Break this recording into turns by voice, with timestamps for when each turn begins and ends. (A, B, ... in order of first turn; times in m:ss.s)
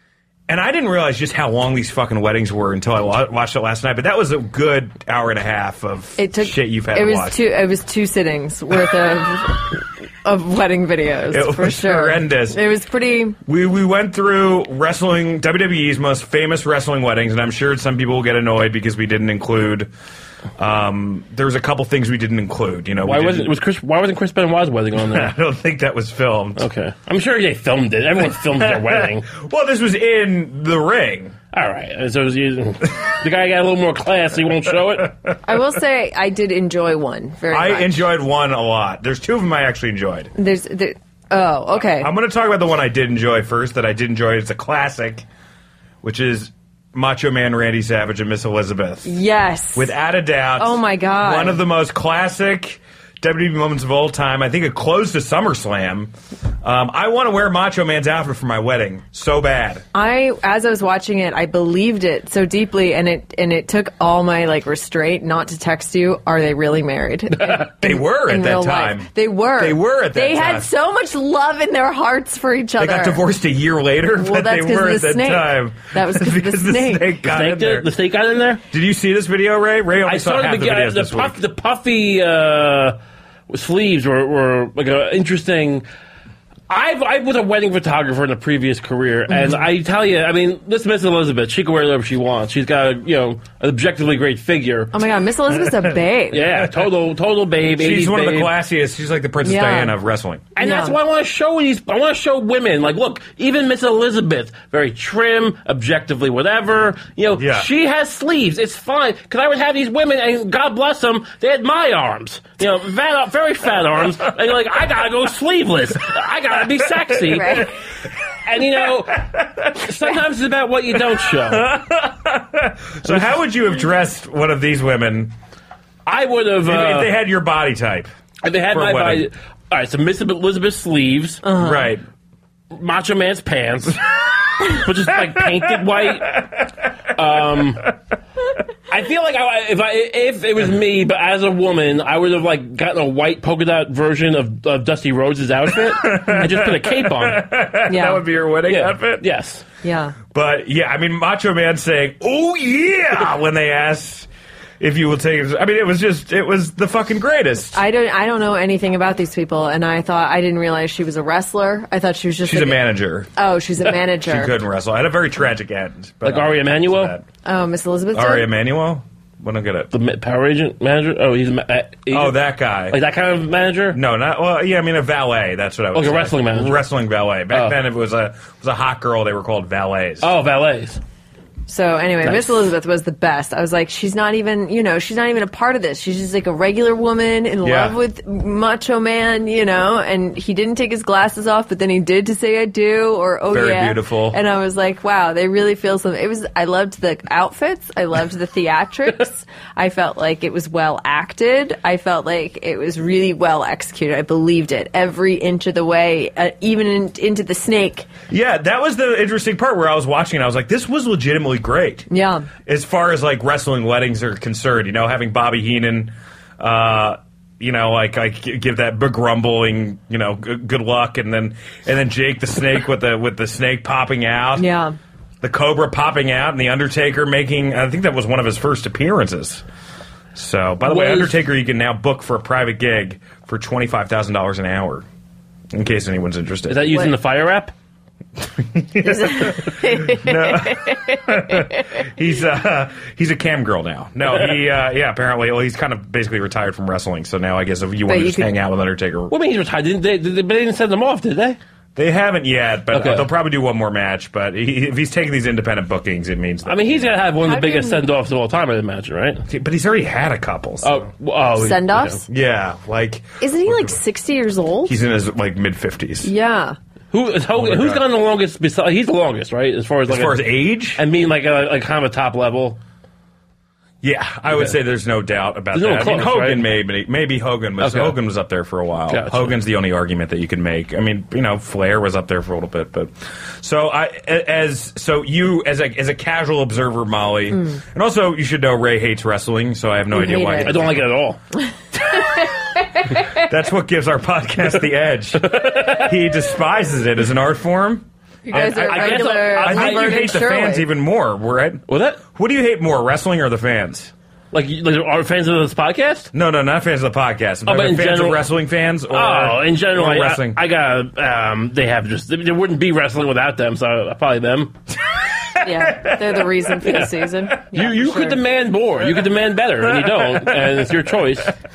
0:00.5-0:07.4 A
0:06.2-0:13.4 B
0:11.3-0:12.6 A
0:13.5-0:19.9 A
0:20.6-0:23.6 A
0:23.0-0:25.3 C
0:25.0-0:26.6 A
0:26.6-0:29.3 C
0:28.6-0:31.4 A
0:31.5-0:35.2 C
0:35.4-0:38.1 B
0:37.5-0:40.3 A
0:40.4-0:42.1 B
0:42.0-0:45.2 A
0:46.0-0:49.1 A
0:49.0-0:49.9 B
0:49.8-0:59.8 A
0:50.6-0:51.6 B
0:59.9-1:13.2 B
1:07.5-1:10.7 A
1:12.8-1:17.9 A
1:14.2-1:17.1 B
1:17.2-1:18.6 C
1:18.7-1:21.4 A
1:20.1-1:23.0 C
1:23.5-1:25.8 C
1:26.7-1:34.9 C
1:29.3-1:29.6 B
1:34.9-1:36.6 B
1:36.3-1:38.5 C
1:37.8-1:40.5 A
1:39.4-1:40.0 B
1:40.6-1:57.7 C
1:40.6-1:41.0 B
1:47.4-1:47.7 A
1:56.8-1:57.6 A
1:57.3-1:57.7 B
1:58.4-2:01.7 C
1:58.8-1:59.7 A
2:01.4-2:05.3 A
2:03.0-2:03.3 C
2:06.1-2:07.2 C
2:06.6-2:08.1 A
2:08.4-2:11.5 C
2:08.7-2:09.3 A
2:11.4-2:11.9 B
2:11.5-2:12.0 A
2:12.7-2:14.1 C
2:14.6-2:16.5 C
2:15.6-2:16.6 A
2:17.1-2:17.9 C
2:18.9-2:27.4 C
2:25.7-2:29.2 A
2:27.9-2:28.2 B
2:28.7-2:29.6 C
2:29.8-2:30.2 B
2:30.3-2:34.3 A
2:34.8-2:37.8 A
2:37.7-2:42.8 B
2:42.4-2:43.3 A
2:43.4-2:44.5 B
2:44.2-2:47.2 A
2:46.2-2:47.1 C
2:47.4-2:48.5 B
2:48.1-2:49.9 A
2:49.9-2:52.4 C
2:52.1-2:53.0 A
2:52.9-2:54.0 C
2:53.9-3:00.3 A
2:55.9-2:56.8 C
2:57.5-2:57.8 C
3:00.2-3:01.0 C
3:01.7-3:28.1 B
3:02.2-3:02.6 C
3:07.6-3:08.0 A
3:13.5-3:14.4 A
3:28.3-3:32.1 A
3:32.1-3:32.5 B
3:32.6-3:44.7 A
3:44.6-3:45.0 B
3:45.4-3:49.6 A
3:50.4-3:55.1 A
3:50.8-3:51.4 C
3:55.7-3:57.1 A
3:56.7-3:57.7 C
3:58.4-4:09.3 A
3:59.0-4:01.8 B
4:08.1-4:08.5 B
4:09.3-4:11.6 C
4:12.0-4:17.1 A
4:12.9-4:13.3 C
4:16.7-4:19.5 C
4:17.4-4:18.0 B
4:19.5-4:21.1 A
4:20.8-4:22.2 C
4:21.6-4:22.2 B
4:22.3-4:24.0 A
4:23.4-4:24.9 B
4:24.9-4:26.3 A
4:26.2-4:26.8 B
4:27.1-4:32.8 C
4:27.6-4:28.0 A
4:30.1-4:31.0 A
4:34.0-4:51.0 A
4:34.5-4:34.8 C
4:35.7-4:36.7 C
4:37.8-4:38.2 C
4:39.1-4:39.6 C
4:50.1-4:50.9 B
4:50.6-4:51.4 C
4:52.0-4:53.2 B
4:53.3-5:04.1 A
4:55.5-4:56.1 C
4:58.5-5:00.9 B
4:58.5-5:00.5 C
5:01.9-5:02.2 C
5:04.5-5:06.3 C
5:06.3-5:10.6 A
5:07.7-5:08.5 C
5:09.1-5:14.7 C
5:15.6-5:16.7 A
5:15.6-5:18.4 B
5:16.8-5:21.5 C
5:19.9-5:20.7 A